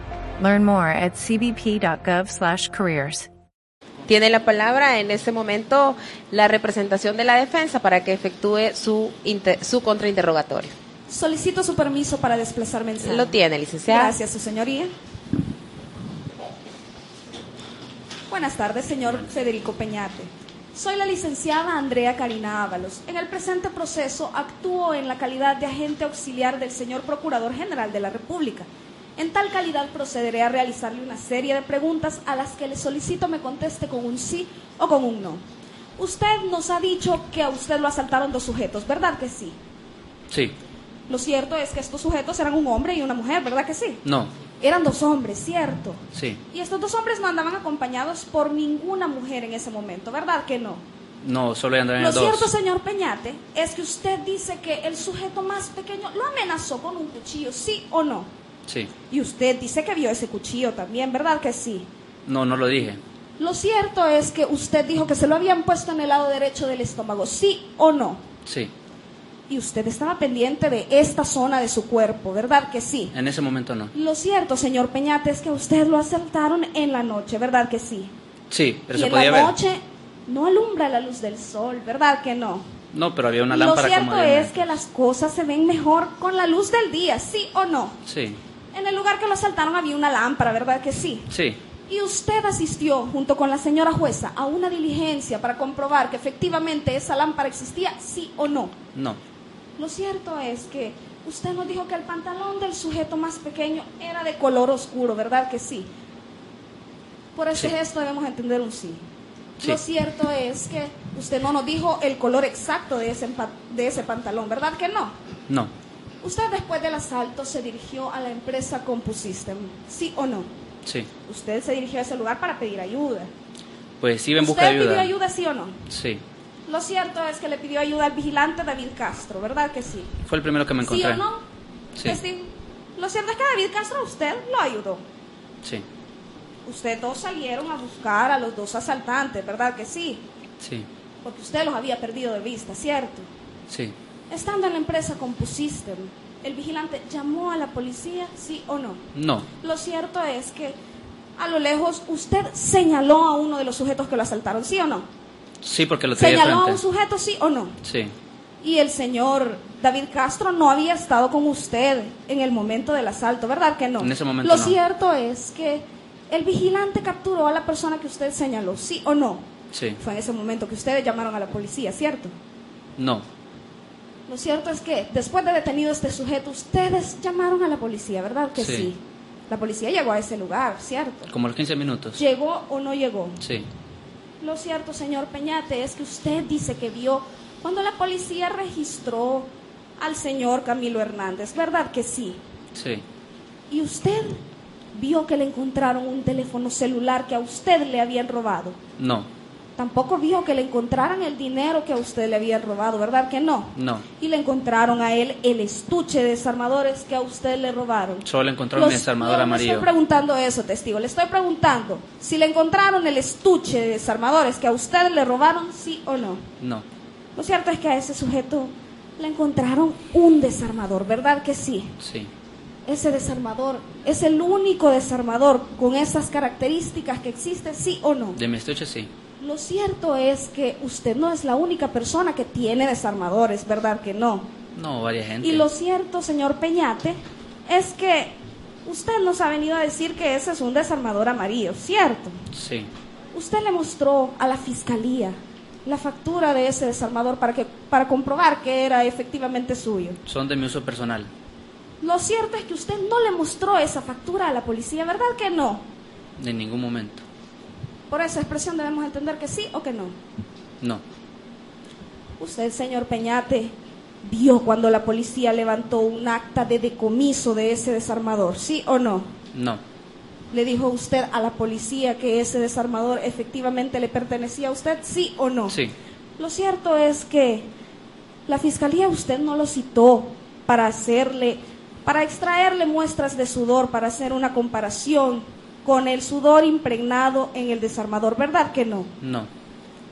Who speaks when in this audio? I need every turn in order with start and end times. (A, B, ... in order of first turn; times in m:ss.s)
0:00.4-0:03.3 A
0:04.1-0:10.7 B
0:11.1-0:14.9 C
0:13.0-0:14.2 B
0:18.3-0:35.4 C
0:36.0-0:39.6 C
0:40.3-0:40.6 D
0:41.1-0:44.0 C
0:44.0-0:44.3 D
0:44.6-0:50.8 C
0:46.1-0:46.4 D
0:51.2-0:52.5 D
0:52.0-0:58.3 C
0:59.1-1:01.9 C
1:02.3-1:03.0 D
1:03.4-1:08.2 C
1:08.4-1:08.7 D
1:09.5-1:13.1 C
1:13.1-1:13.9 D
1:13.9-1:18.1 C
1:18.5-1:19.6 D
1:18.9-1:22.7 C
1:22.9-1:24.8 D
1:23.5-1:28.0 C
1:28.0-1:28.4 D
1:28.7-1:31.3 C
1:31.3-1:31.6 D
1:31.9-1:38.8 C
1:39.8-1:45.9 C
1:47.4-1:49.0 C
1:49.6-1:55.2 C
1:56.2-2:00.5 C
2:01.2-2:03.3 C
2:04.0-2:05.1 D
2:04.4-2:05.8 C
2:05.9-2:06.2 D
2:06.7-2:10.2 C
2:10.3-2:11.2 D
2:10.8-2:11.4 C
2:12.0-2:15.0 C
2:16.6-2:20.2 C
2:20.6-2:20.9 D
2:21.2-2:23.3 C
2:23.7-2:24.0 D
2:24.3-2:29.0 C
2:29.2-2:29.5 D
2:29.6-2:30.8 C
2:31.4-2:35.1 C
2:35.6-2:36.8 D
2:36.2-2:37.8 C
2:37.8-2:38.1 D
2:38.6-2:52.4 C
2:44.0-2:44.8 D
2:49.7-2:50.0 D
2:53.0-2:53.3 D
2:54.3-3:01.3 C
2:58.6-2:58.9 D
3:01.3-3:02.2 D
3:02.2-3:03.4 C
3:03.4-3:03.7 D
3:04.4-3:12.4 C
3:12.8-3:13.0 D
3:13.7-3:14.4 C
3:14.9-3:18.8 C
3:19.0-3:19.3 D
3:19.8-3:36.5 C
3:23.8-3:24.0 D
3:28.3-3:29.9 D
3:36.6-3:36.8 D
3:37.4-3:42.0 C
3:42.0-3:42.3 D
3:42.9-3:48.4 C
3:48.4-3:49.1 D
3:49.4-3:54.5 C
3:54.8-3:55.7 D
3:55.4-4:02.4 C
4:02.5-4:02.9 D
4:03.3-4:10.2 C
4:10.3-4:11.3 D
4:12.0-4:15.9 C
4:16.4-4:17.2 D
4:18.1-4:20.2 C
4:22.4-4:29.4 C
4:29.5-4:29.8 D
4:30.5-4:35.8 C
4:36.4-4:37.7 C
4:38.5-4:49.1 C
4:49.2-4:49.5 D